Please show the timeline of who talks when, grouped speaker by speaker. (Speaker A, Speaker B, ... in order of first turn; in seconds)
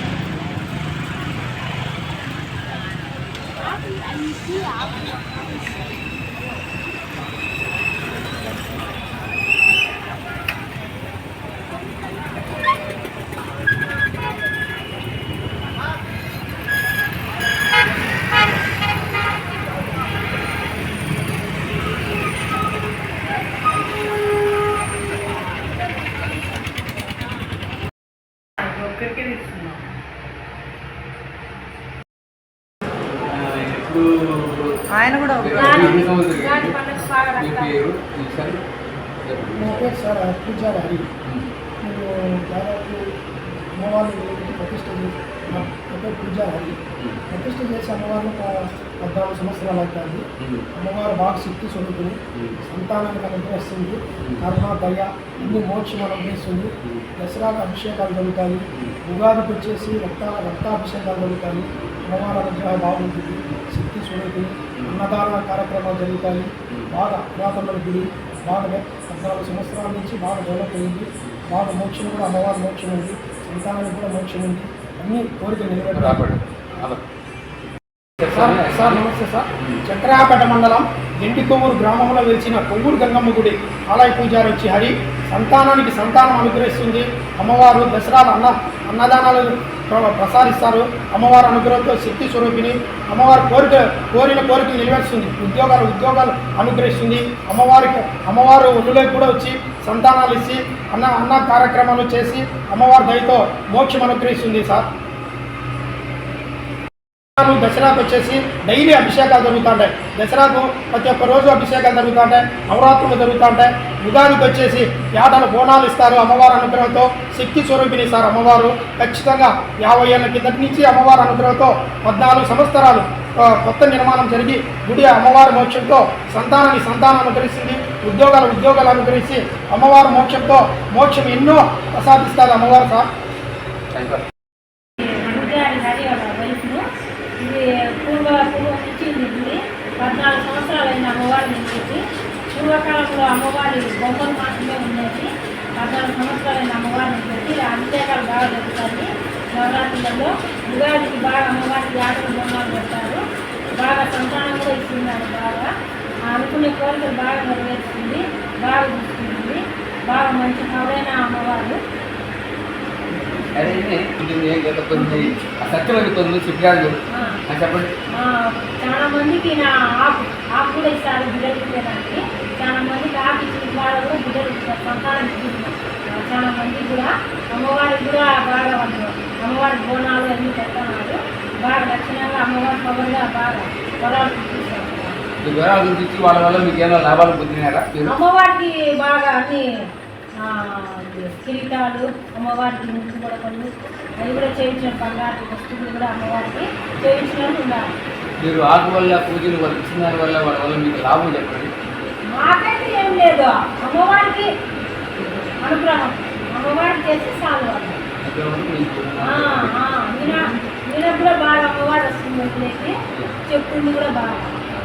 Speaker A: 33.3-36.8, 37.4-38.6, 39.2-39.8, 50.4-50.7, 64.8-65.0, 75.9-77.0, 78.2-79.0, 133.9-134.2, 163.5-167.9, 185.4-188.2, 198.4-201.7, 208.2-209.8
Speaker B: 35.5-37.8, 135.0-136.8, 137.4-153.2, 153.7-155.7, 156.3-161.8, 167.1-167.4, 168.1-185.2, 188.0-189.7, 190.4-197.9, 202.3-204.5, 205.6-208.0, 209.2-214.5
Speaker C: 39.5-41.0, 41.8-43.0, 43.7-46.8, 47.3-76.2, 78.3-104.8, 107.4-133.1